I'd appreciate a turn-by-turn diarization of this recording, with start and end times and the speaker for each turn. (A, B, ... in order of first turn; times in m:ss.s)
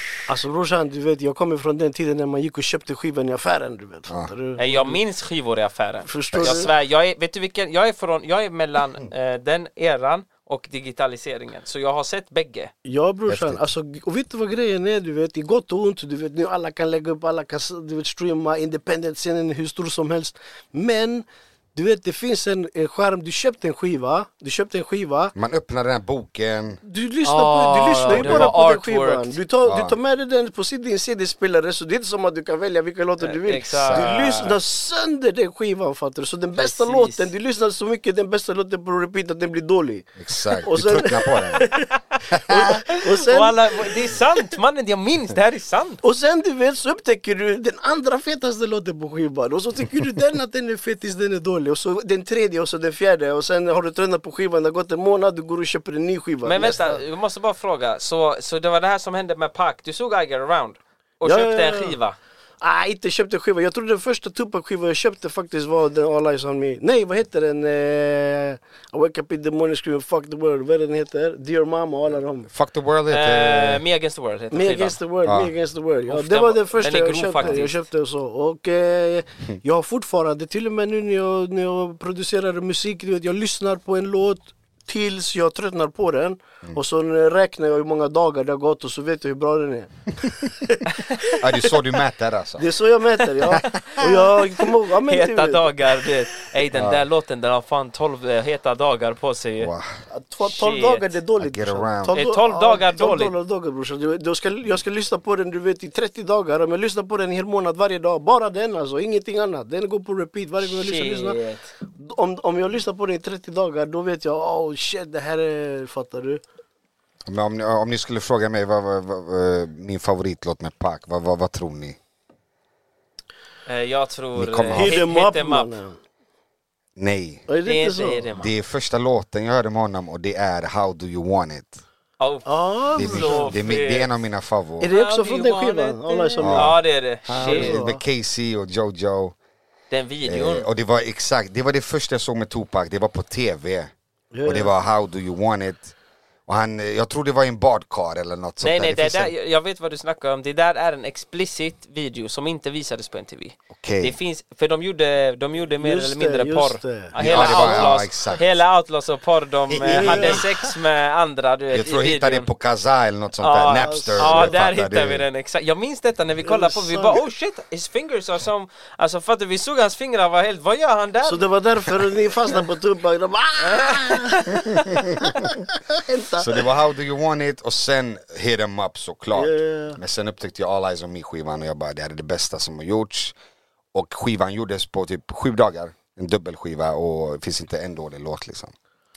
0:00.3-0:05.0 A
0:04.6-0:12.7 B
0:06.1-0:06.7 A
0:06.3-0:06.6 C
0:12.8-0:25.3 A
0:13.3-0:13.6 C
0:25.4-0:26.8 C
0:26.8-0:43.9 A
0:27.2-0:29.4 B
0:28.1-0:28.5 C
0:29.6-0:30.0 C
0:33.2-0:34.6 B
0:33.7-0:34.3 C
0:36.6-0:37.3 B
0:40.2-0:41.6 C
0:42.3-0:42.7 C
0:43.2-0:46.0 B
0:46.0-0:57.0 A
0:56.4-1:02.2 B
1:01.2-1:02.0 A
1:02.6-1:12.5 A
1:12.5-1:13.8 C
1:13.1-1:15.0 B
1:14.5-1:31.4 A
1:15.2-1:15.5 C
1:16.1-1:17.8 B
1:31.4-1:32.7 C
1:32.6-1:35.6 A
1:33.6-1:39.7 B
1:36.7-1:37.0 C
1:39.6-1:39.9 C
1:40.1-1:51.4 A
1:40.4-1:41.1 B
1:41.4-1:42.2 C
1:42.1-1:43.3 B
1:50.6-1:51.7 B
1:52.0-1:56.4 A
1:57.2-2:02.0 C
2:03.7-2:05.7 B
2:04.3-2:05.0 C
2:04.7-2:06.0 A
2:07.0-2:07.5 C
2:07.5-2:08.3 A
2:07.6-2:08.5 B
2:08.4-2:11.8 C
2:12.2-2:14.1 B
2:12.4-2:13.5 A
2:12.9-2:14.9 C
2:14.8-2:16.8 A
2:14.8-2:17.8 B
2:16.4-2:19.4 C
2:17.3-2:18.0 A
2:19.9-2:20.7 B
2:20.2-2:23.9 C
2:24.3-2:24.7 A
2:24.4-2:25.9 C
2:26.5-2:29.3 C
2:28.6-2:42.5 B
2:33.7-2:34.2 C
2:35.8-2:38.0 A
2:37.1-2:38.6 C
2:39.7-2:40.5 C
2:39.9-2:40.4 A
2:41.7-2:45.2 C
2:43.4-2:51.4 B
2:43.8-2:44.5 A
2:46.4-2:47.2 A
2:51.2-2:56.6 A
2:53.6-2:55.0 B
2:54.8-2:55.3 C
2:56.4-3:03.3 C
2:59.3-3:00.0 A
3:03.9-3:08.7 C